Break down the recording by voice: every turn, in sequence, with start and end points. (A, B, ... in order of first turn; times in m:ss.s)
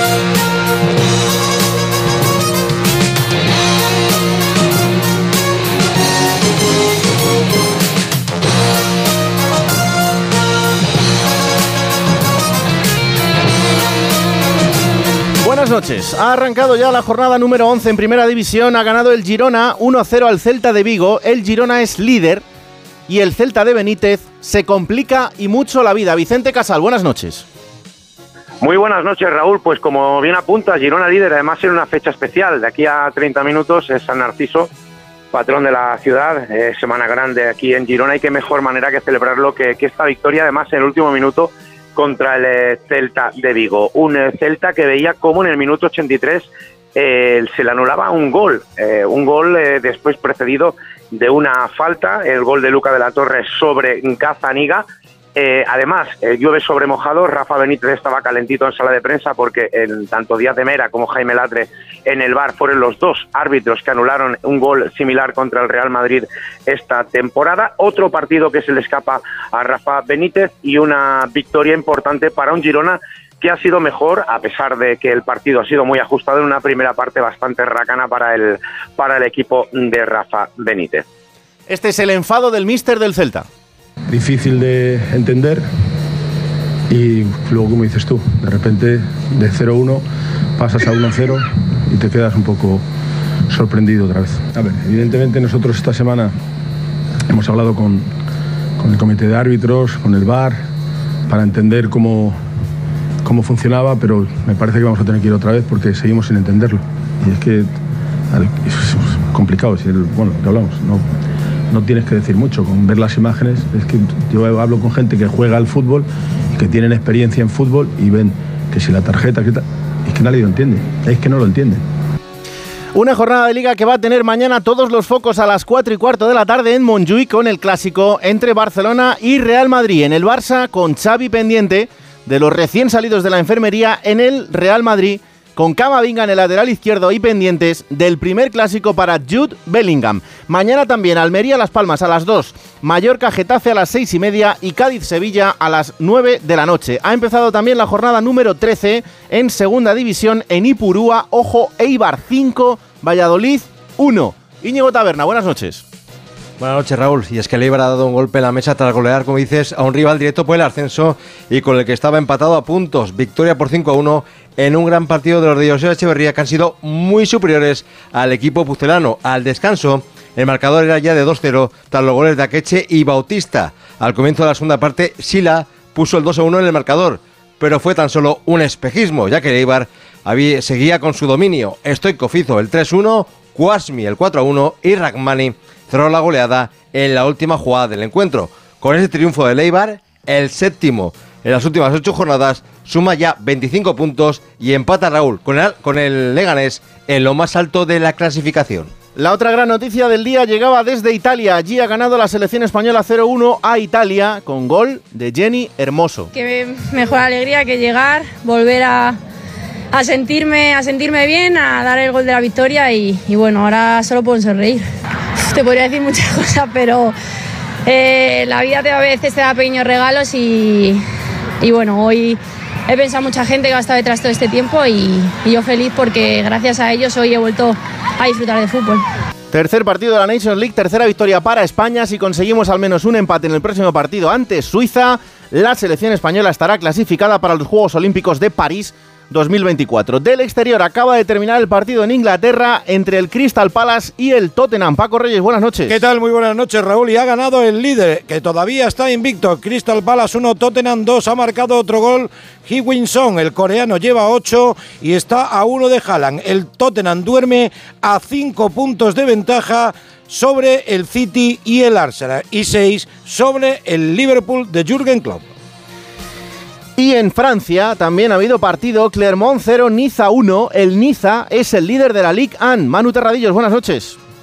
0:15.4-0:22.4 A
0:23.1-0:27.4 A
0:28.6-0:34.7 B
0:35.3-1:21.0 B
1:21.7-1:23.5 A
1:24.1-1:25.6 C
1:26.9-1:30.0 C
1:30.6-1:32.8 C
1:33.5-1:36.3 C
1:37.3-1:38.1 C
1:38.8-1:40.6 C
1:41.3-1:42.4 C
1:43.2-1:47.7 C
1:48.3-1:51.1 C
1:51.7-2:01.8 C
2:03.0-2:35.8 A
2:36.6-3:18.9 D
3:19.2-3:26.3 A
3:26.3-3:29.2 E
3:29.9-3:34.9 E
3:35.4-3:37.2 E
3:37.8-3:41.0 E
3:41.6-3:49.0 E
3:49.5-4:06.0 A
4:05.9-4:25.4 F
4:27.0-4:34.2 A